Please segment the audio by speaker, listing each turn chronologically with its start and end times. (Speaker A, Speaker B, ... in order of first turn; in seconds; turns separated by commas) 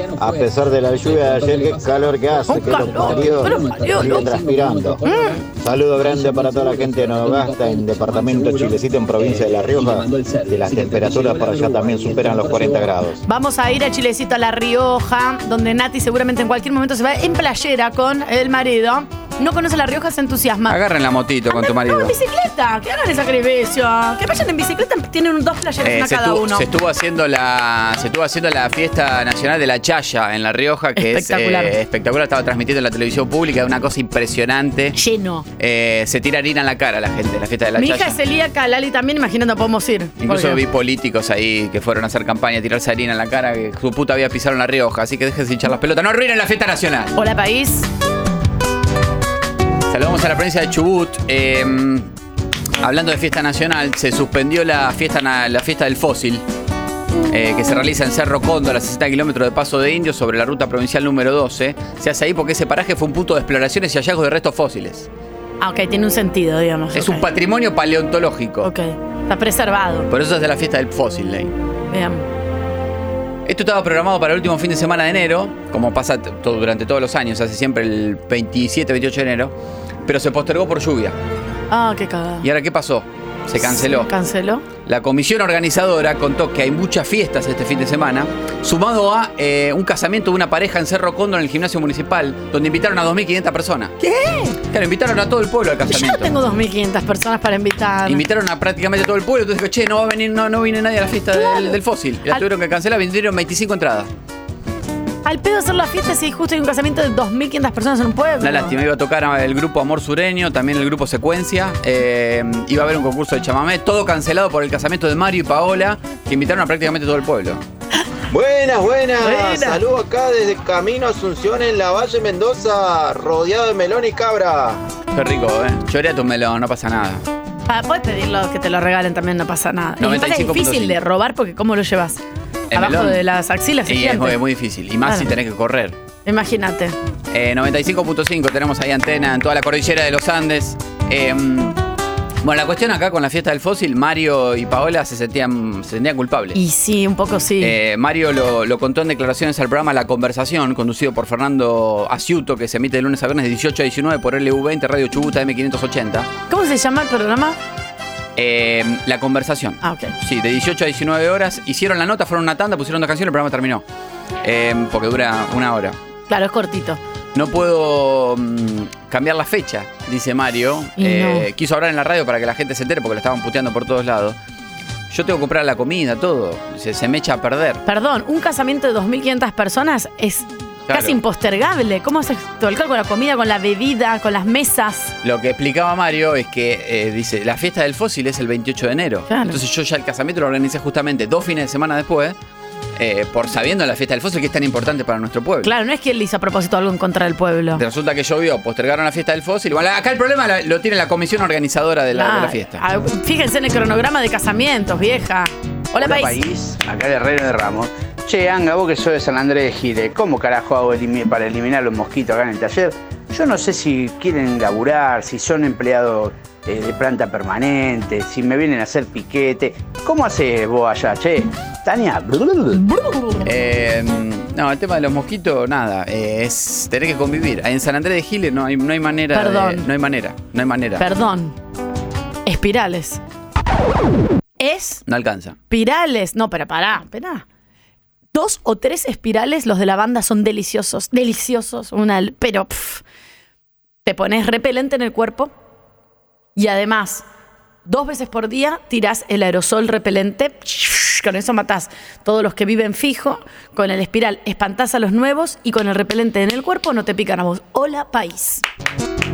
Speaker A: 0.2-5.0, Speaker B: 2.5-4.2, Speaker C: 3.4-4.3, Speaker B: 5.1-5.4, Speaker A: 5.6-13.2, Speaker B: 13.3-20.8, Speaker C: 20.7-22.1, Speaker B: 21.5-26.7, Speaker C: 25.8-35.0, Speaker B: 31.0-31.8, Speaker B: 35.0-35.5, Speaker C: 35.6-38.2, Speaker B: 37.8-40.6, Speaker C: 40.2-47.1, Speaker B: 47.1-47.9, Speaker C: 49.9-52.1, Speaker C: 52.8-56.4, Speaker C: 57.3-65.1, Speaker B: 65.6-67.2, Speaker C: 66.9-68.7, Speaker B: 68.6-70.1, Speaker C: 70.1-71.5, Speaker B: 71.9-72.2, Speaker C: 73.5-81.2, Speaker B: 81.7-82.5, Speaker C: 82.4-84.1, Speaker B: 83.6-84.7, Speaker C: 84.8-93.9, Speaker B: 94.0-94.6, Speaker C: 94.7-96.4, Speaker B: 95.9-98.2, Speaker C: 98.1-104.1, Speaker B: 101.3-101.8, Speaker B: 105.2-108.8, Speaker C: 108.4-117.6, Speaker D: 118.3-124.8, Speaker B: 119.2-119.8, Speaker C: 125.1-127.2, Speaker B: 127.7-132.2, Speaker C: 130.0-131.0, Speaker C: 132.7-133.2, Speaker B: 132.7-134.4, Speaker C: 133.9-136.0, Speaker B: 135.0-135.3, Speaker B: 136.2-137.0, Speaker C: 137.3-141.8, Speaker C: 142.4-146.6, Speaker B: 146.5-147.8, Speaker C: 147.6-156.3, Speaker B: 156.5-157.6, Speaker C: 158.4-163.8, Speaker B: 159.8-160.1, Speaker C: 164.4-166.0, Speaker B: 166.3-167.0, Speaker C: 167.3-174.4, Speaker B: 171.0-171.5, Speaker C: 175.1-177.8, Speaker B: 177.9-185.1, Speaker C: 180.9-181.2, Speaker C: 185.2-192.4, Speaker B: 189.3-189.6, Speaker C: 193.0-195.7, Speaker B: 195.6-197.8, Speaker C: 197.8-202.8, Speaker B: 202.1-206.4, Speaker E: 205.9-222.8, Speaker B: 222.8-223.5, Speaker C: 223.4-231.1, Speaker B: 229.3-229.9, Speaker B: 231.0-231.6, Speaker B: 232.5-233.2, Speaker B: 234.6-235.0, Speaker C: 235.1-235.6, Speaker B: 235.7-237.4, Speaker B: 238.3-243.0, Speaker B: 244.1-245.5, Speaker B: 246.6-247.3, Speaker B: 247.9-258.6